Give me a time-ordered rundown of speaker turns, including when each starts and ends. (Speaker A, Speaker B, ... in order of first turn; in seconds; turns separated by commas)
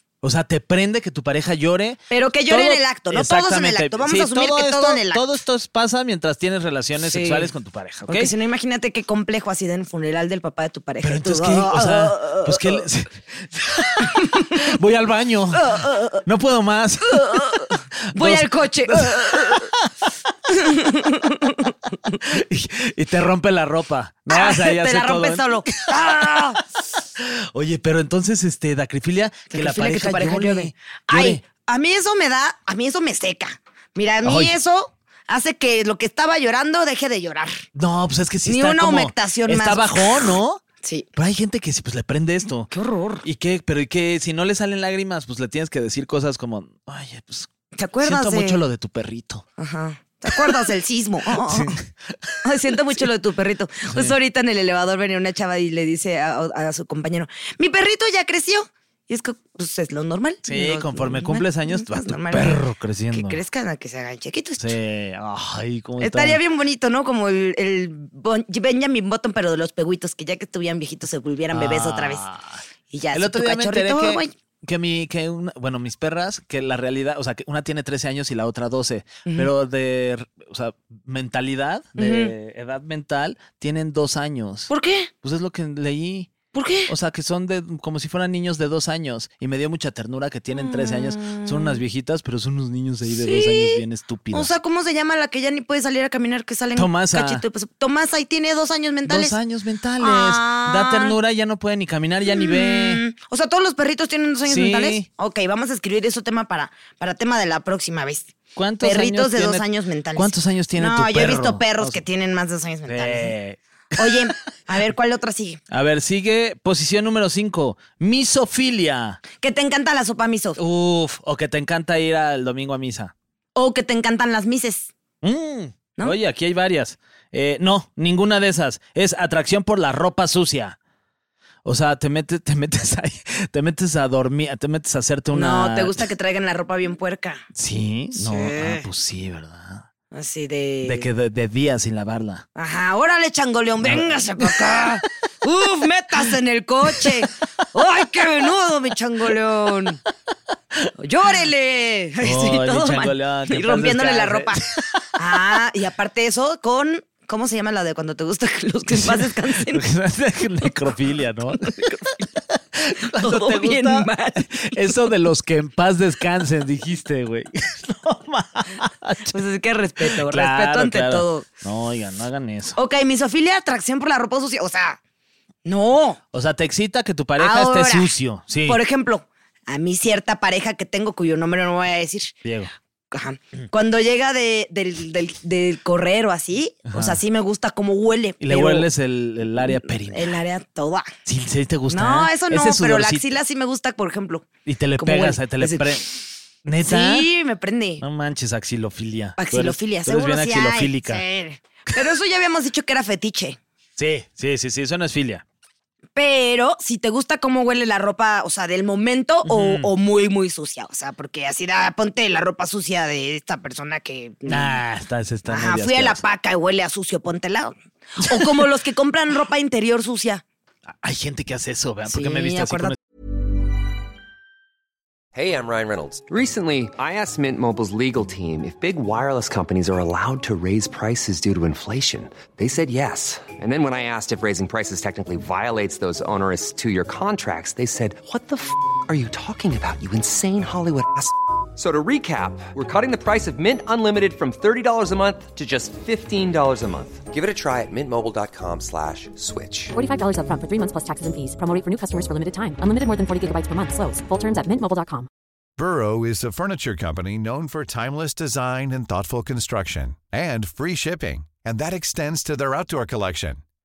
Speaker A: 0.2-8.3, Speaker B: 2.1-5.2, Speaker B: 7.1-7.5, Speaker B: 8.1-12.9, Speaker A: 11.0-19.9, Speaker B: 14.0-14.5, Speaker B: 15.6-16.2, Speaker B: 17.1-19.7, Speaker B: 20.5-22.2, Speaker A: 22.2-26.6, Speaker B: 24.3-26.6, Speaker A: 27.2-31.4, Speaker B: 29.5-37.6, Speaker A: 34.2-34.6, Speaker A: 37.8-40.6, Speaker B: 38.5-41.1, Speaker A: 41.2-42.7, Speaker B: 42.7-43.2, Speaker A: 43.2-47.5, Speaker B: 47.8-48.6, Speaker A: 48.0-49.5, Speaker B: 49.6-51.8, Speaker A: 51.3-52.4, Speaker B: 52.4-64.8, Speaker A: 60.5-63.4, Speaker A: 64.6-66.4, Speaker B: 66.0-72.2, Speaker A: 71.5-72.6, Speaker B: 72.9-74.3, Speaker A: 73.1-84.7, Speaker B: 82.0-82.3, Speaker B: 84.7-85.1, Speaker A: 85.2-86.3, Speaker B: 86.5-86.9, Speaker A: 86.9-94.5, Speaker B: 90.5-91.8, Speaker B: 93.1-99.4, Speaker A: 96.8-97.4, Speaker A: 99.1-103.0, Speaker B: 100.0-101.2, Speaker B: 102.3-113.3, Speaker A: 104.5-105.1, Speaker A: 108.6-109.6, Speaker A: 110.2-112.0, Speaker A: 112.9-114.3, Speaker B: 114.0-115.6, Speaker A: 115.7-119.2, Speaker B: 119.4-120.6, Speaker A: 120.6-123.1, Speaker B: 123.5-124.9, Speaker A: 125.2-130.8, Speaker A: 131.7-136.0, Speaker B: 135.3-137.4, Speaker A: 137.6-139.9, Speaker B: 138.2-138.9, Speaker B: 140.1-141.1, Speaker A: 140.8-142.5, Speaker B: 142.6-150.0, Speaker A: 143.8-144.9, Speaker A: 146.9-147.3, Speaker B: 151.0-154.6, Speaker A: 152.2-155.1, Speaker B: 155.2-159.8, Speaker A: 158.9-162.2, Speaker B: 161.6-162.2, Speaker A: 162.8-169.4, Speaker B: 163.2-164.9, Speaker B: 169.3-171.5, Speaker A: 170.0-172.8, Speaker B: 172.8-175.0, Speaker B: 175.7-176.2, Speaker A: 176.3-178.8, Speaker B: 177.4-178.1, Speaker B: 178.7-182.3, Speaker A: 182.4-182.7, Speaker B: 183.1-188.9, Speaker A: 186.9-187.2, Speaker A: 188.4-190.3, Speaker B: 189.6-191.1, Speaker A: 191.3-193.3, Speaker B: 191.9-194.5, Speaker A: 194.7-197.3, Speaker B: 195.0-196.0, Speaker B: 196.8-198.0, Speaker A: 198.0-201.2, Speaker B: 199.4-203.6, Speaker A: 204.0-205.4, Speaker B: 206.2-214.8, Speaker A: 209.4-209.9, Speaker A: 214.5-216.2, Speaker B: 215.5-220.4, Speaker A: 218.2-218.7, Speaker A: 221.0-223.0, Speaker B: 222.1-223.0, Speaker C: 225.3-249.9, Speaker D: 249.9-255.3, Speaker E: 255.8-263.6